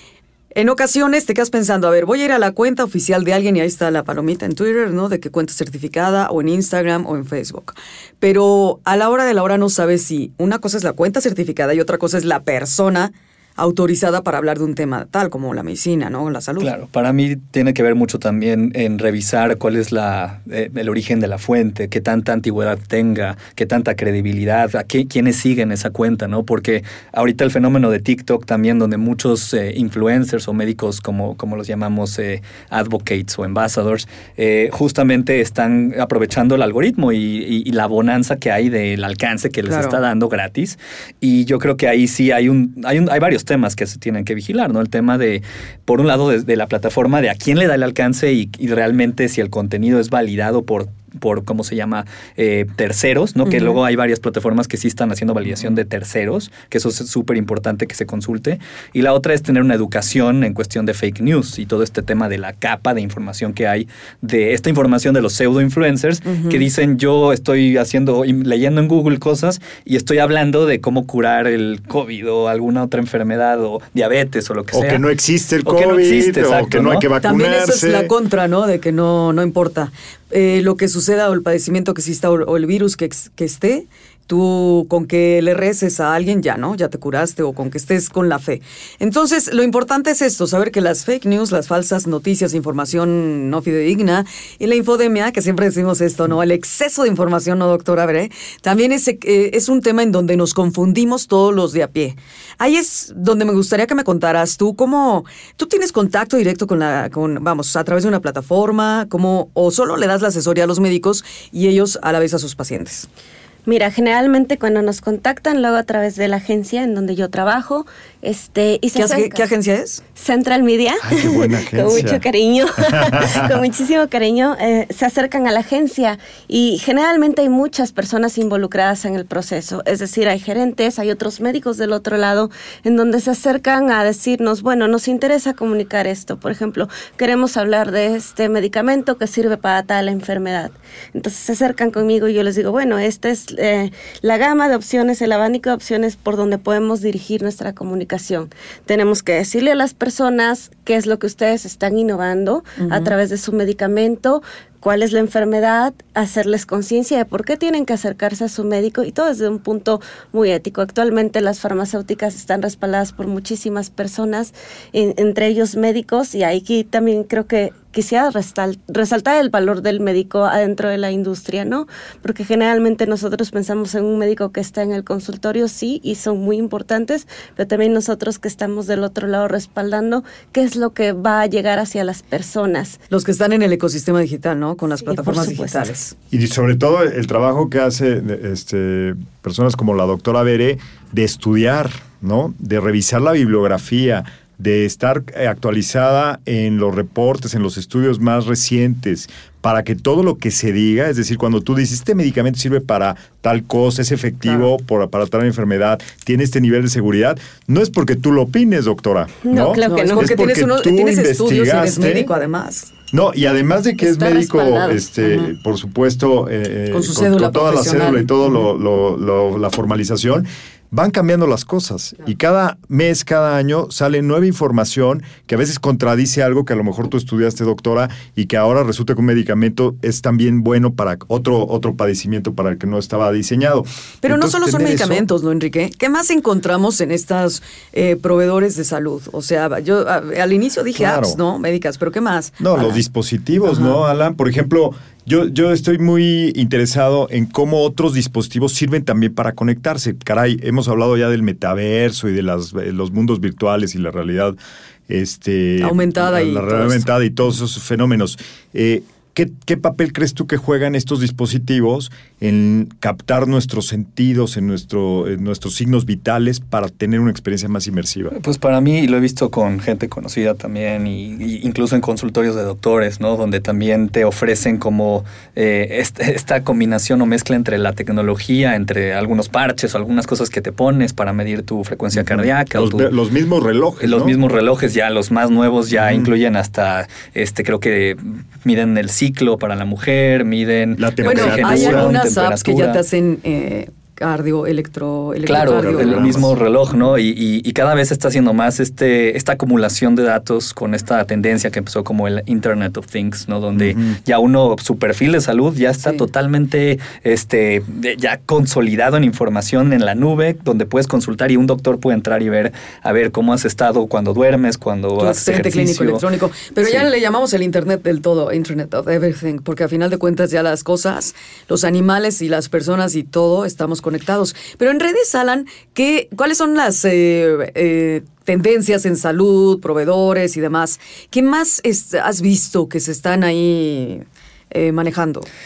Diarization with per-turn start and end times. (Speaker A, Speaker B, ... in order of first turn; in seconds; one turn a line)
Speaker A: 0.5-16.7
Speaker B: 16.6-75.0
Speaker A: 39.7-40.0
Speaker A: 53.4-53.8
Speaker A: 66.2-66.7
Speaker C: 74.7-78.1
Speaker B: 75.6-77.1
Speaker A: 77.2-113.1
Speaker D: 113.7-119.4
Speaker A: 119.0-120.0
Speaker D: 120.2-183.0
Speaker C: 121.0-122.2
Speaker C: 122.8-123.4
Speaker A: 152.8-153.1
Speaker A: 183.1-186.1
Speaker D: 185.1-185.8
Speaker C: 186.3-212.3
Speaker D: 209.5-210.3
Speaker A: 209.8-212.9
Speaker C: 213.1-235.2
Speaker D: 214.0-215.0
Speaker A: 215.2-215.5
Speaker A: 216.9-218.6
Speaker A: 234.2-243.0
Speaker C: 240.9-241.4
Speaker C: 242.6-254.6
Speaker A: 243.6-243.9
Speaker C: 255.1-268.3
Speaker A: 255.8-257.1
Speaker B: 268.4-283.1
Speaker C: 282.1-284.4
Speaker B: 284.0-293.0
Speaker C: 285.9-286.3
Speaker C: 291.0-292.2
Speaker A: 291.2-296.4
Speaker B: 295.4-316.2
Speaker C: 295.8-296.5
Speaker C: 303.7-304.2
Speaker A: 315.2-335.5
Speaker B: 316.8-317.1